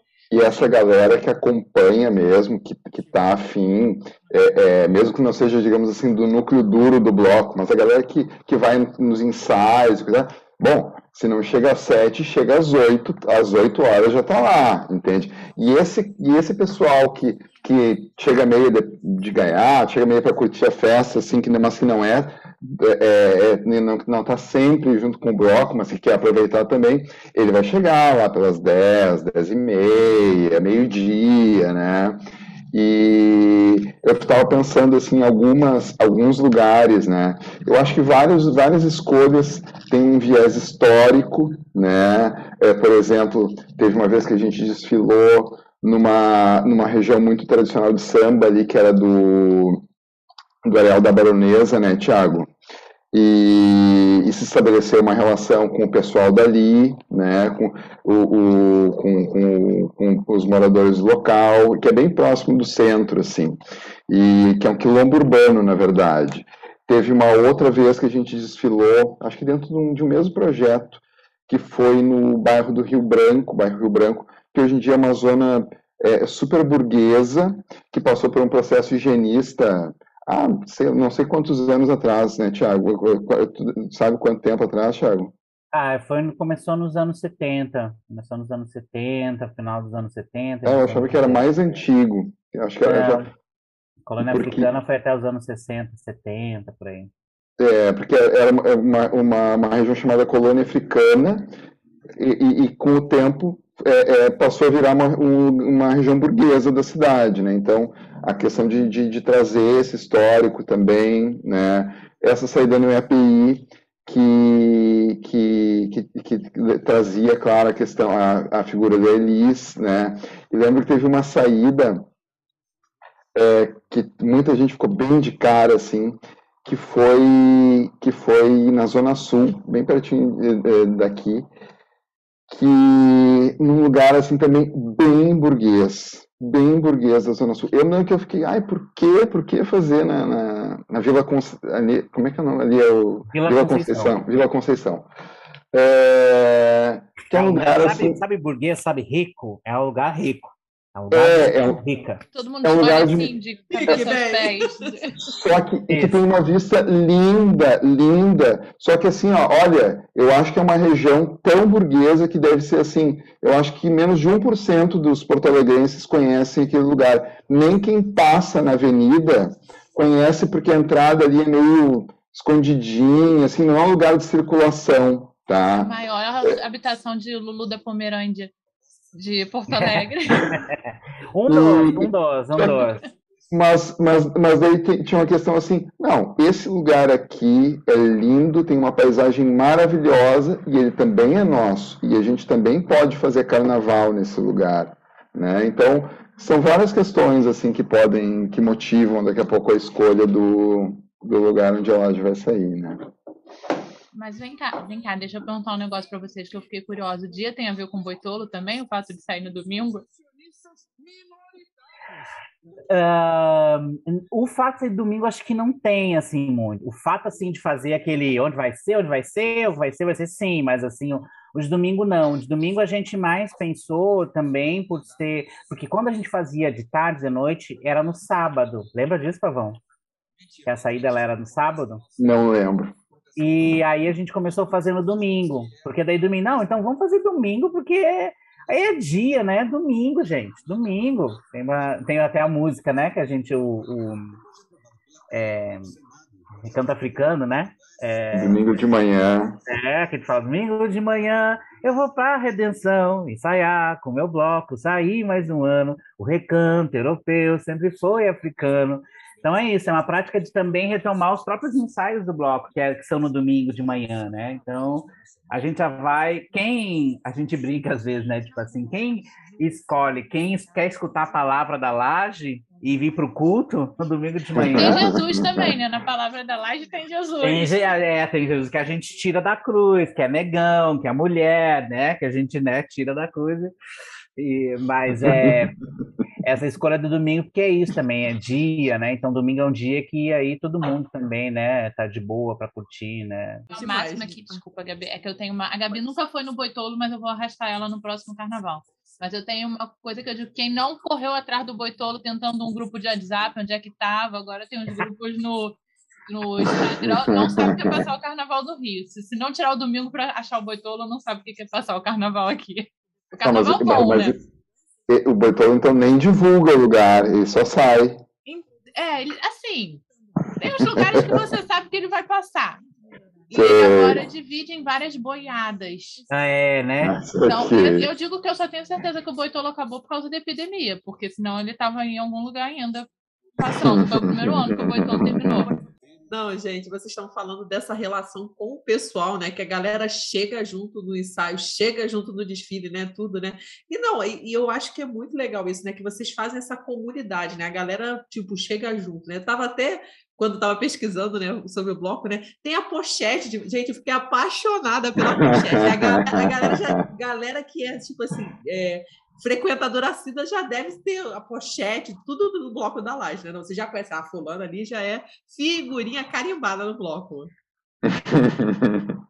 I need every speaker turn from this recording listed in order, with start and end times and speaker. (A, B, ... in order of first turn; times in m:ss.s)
0:00.3-0:32.2 A
0:32.7-0:49.8 A
0:50.6-0:52.5 A
0:53.1-1:25.3 A
1:25.7-1:31.5 B
1:30.6-1:33.3 A
1:32.8-1:33.3 B
1:34.0-1:37.1 B
1:34.2-1:34.7 A
1:37.6-1:41.5 A
1:42.2-2:02.1 A
2:03.3-2:11.5 A
2:12.5-2:25.1 A
2:23.3-2:24.2 B
2:25.7-2:28.2 A
2:27.3-2:32.2 B
2:31.1-2:31.8 A
2:32.3-2:35.0 C
2:32.6-2:33.3 A
2:33.7-2:34.8 D
2:35.2-2:55.9 A
2:35.9-2:36.2 B
2:55.8-2:58.5 C
2:59.1-3:00.6 C
2:59.8-3:00.8 B
3:01.3-3:03.0 B
3:01.5-3:02.7 A
3:03.5-3:23.0 A
3:24.1-3:30.0 C
3:32.9-3:49.8 B
3:50.6-3:52.0 B
3:52.2-3:52.9 A
3:53.3-4:04.4 B
4:05.3-4:05.9 B
4:06.6-4:08.7 B
4:08.3-4:09.6 A
4:09.6-4:35.1 B
4:34.5-4:35.7 A
4:34.6-4:37.7 C
4:37.4-4:43.7 B
4:44.4-4:45.8 B
4:46.4-4:53.7 B
4:53.7-5:14.3 C
4:53.7-4:54.6 D
5:06.6-5:08.1 A
5:13.4-5:14.4 A
5:15.1-5:18.2 A
5:18.4-5:20.0 C
5:20.6-5:22.8 C
5:20.8-5:21.3 A
5:23.5-5:26.2 C
5:23.5-5:24.2 A
5:26.3-5:27.2 B
5:27.0-5:28.1 A
5:27.4-5:33.1 C
5:33.6-5:35.8 C
5:33.6-5:35.7 A
5:36.3-6:07.5 D
5:55.4-5:56.9 A
6:08.0-6:09.2 A